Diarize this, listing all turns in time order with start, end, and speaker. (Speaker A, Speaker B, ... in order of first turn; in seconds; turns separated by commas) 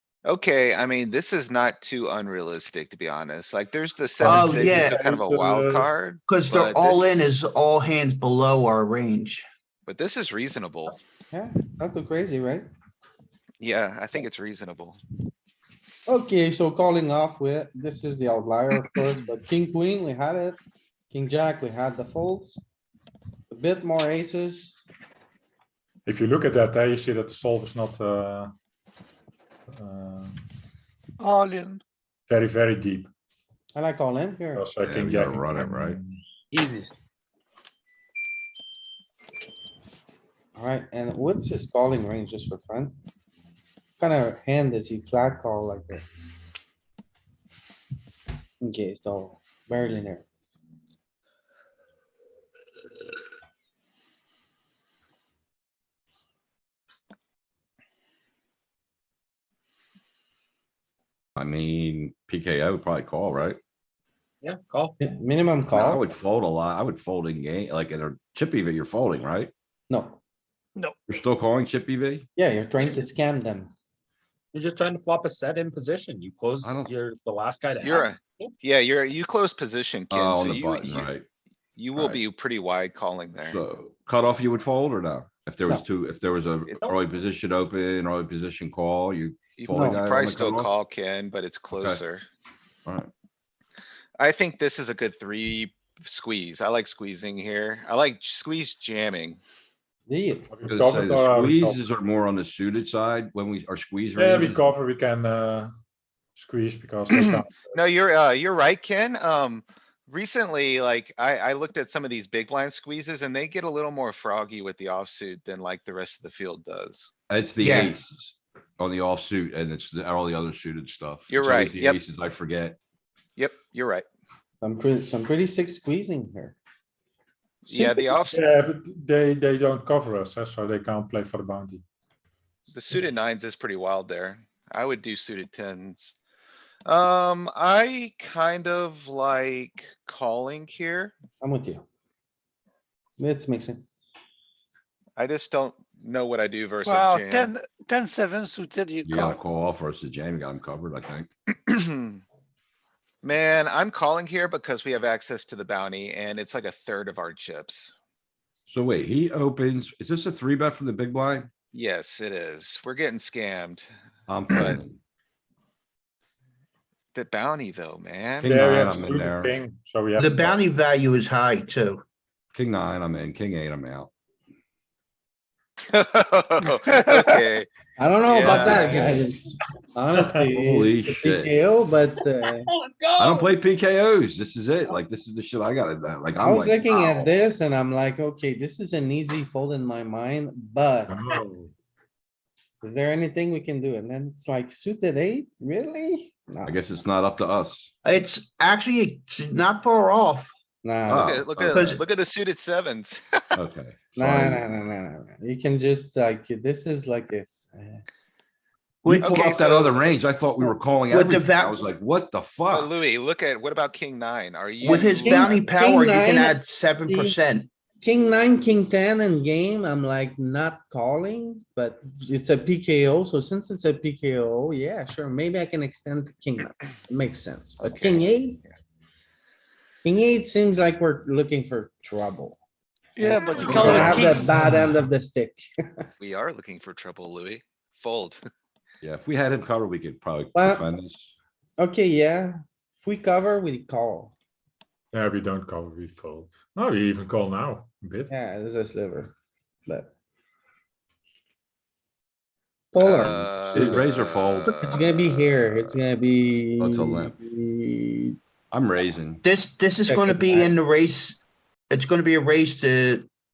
Speaker A: 0.2-7.2, Speaker B: 4.2-5.0, Speaker C: 4.2-6.0, Speaker B: 6.3-9.4, Speaker A: 9.9-11.0, Speaker D: 11.3-12.7, Speaker A: 13.6-15.0, Speaker D: 16.1-20.6, Speaker D: 21.1-22.6, Speaker D: 23.5-24.8, Speaker C: 26.1-28.5, Speaker C: 29.7-30.4, Speaker E: 31.2-31.8, Speaker C: 32.3-33.1, Speaker D: 33.8-34.7, Speaker C: 34.5-36.2, Speaker F: 34.8-36.0, Speaker G: 36.5-37.0, Speaker D: 40.6-43.0, Speaker D: 44.0-46.0, Speaker D: 48.6-50.2, Speaker F: 61.4-63.6, Speaker G: 64.4-65.0, Speaker D: 65.0-66.0, Speaker F: 65.7-69.5, Speaker D: 69.9-70.2, Speaker F: 71.1-72.3, Speaker D: 72.4-73.7, Speaker G: 74.5-78.5, Speaker F: 76.6-76.9, Speaker A: 77.8-81.1, Speaker F: 80.1-81.3, Speaker A: 81.8-83.6, Speaker F: 81.9-82.2, Speaker F: 83.4-90.7, Speaker A: 89.6-92.2, Speaker D: 89.7-90.0, Speaker F: 91.8-92.0, Speaker A: 94.2-99.4, Speaker D: 100.1-100.5, Speaker C: 100.5-101.8, Speaker F: 100.7-104.7, Speaker C: 104.2-105.7, Speaker C: 106.4-107.8, Speaker A: 107.1-117.1, Speaker F: 117.3-122.8, Speaker B: 117.6-118.0, Speaker A: 121.3-122.0, Speaker A: 123.4-124.0, Speaker D: 124.6-126.6, Speaker D: 127.6-128.2, Speaker A: 127.7-128.4, Speaker C: 128.3-131.8, Speaker A: 132.7-136.2, Speaker A: 136.9-141.1, Speaker D: 141.4-141.8, Speaker D: 143.2-143.8, Speaker A: 145.2-147.5, Speaker E: 146.9-149.1, Speaker F: 149.1-151.3, Speaker A: 151.7-152.2, Speaker A: 153.2-157.9, Speaker F: 158.7-161.5, Speaker A: 161.7-163.9, Speaker F: 164.3-165.0, Speaker A: 164.5-164.8, Speaker A: 167.1-168.6, Speaker F: 168.4-169.5, Speaker C: 168.4-170.6, Speaker B: 170.2-172.0, Speaker F: 172.5-174.1, Speaker A: 175.9-177.7, Speaker D: 178.0-182.7, Speaker A: 178.3-179.2, Speaker F: 178.4-179.1, Speaker C: 180.1-180.5, Speaker F: 180.5-181.5, Speaker F: 183.2-187.3, Speaker D: 186.4-191.2, Speaker C: 191.1-191.7, Speaker D: 192.8-196.8, Speaker F: 196.6-197.9, Speaker B: 198.1-200.5, Speaker D: 200.8-201.4, Speaker F: 201.1-202.0, Speaker A: 201.1-203.4, Speaker B: 201.7-202.0, Speaker F: 203.6-204.7, Speaker D: 204.2-208.0, Speaker B: 209.0-209.9, Speaker F: 209.1-212.9, Speaker A: 209.2-210.1, Speaker B: 211.1-211.8, Speaker A: 212.7-215.6, Speaker B: 214.8-217.7, Speaker D: 214.9-217.4, Speaker D: 218.0-228.6, Speaker A: 227.8-228.3, Speaker D: 230.0-232.6, Speaker E: 233.2-234.5, Speaker A: 233.6-234.0, Speaker D: 233.6-236.1, Speaker F: 233.7-234.3, Speaker C: 233.9-235.0, Speaker A: 236.2-238.4, Speaker F: 239.0-241.3, Speaker D: 240.5-240.8, Speaker D: 241.8-244.3, Speaker C: 245.1-248.3, Speaker D: 248.3-249.3, Speaker D: 252.9-254.1, Speaker A: 253.0-255.1, Speaker F: 253.2-255.9, Speaker D: 254.7-258.4, Speaker F: 256.8-257.4, Speaker F: 258.7-259.4, Speaker B: 259.4-261.4, Speaker D: 260.1-260.8, Speaker B: 261.9-263.3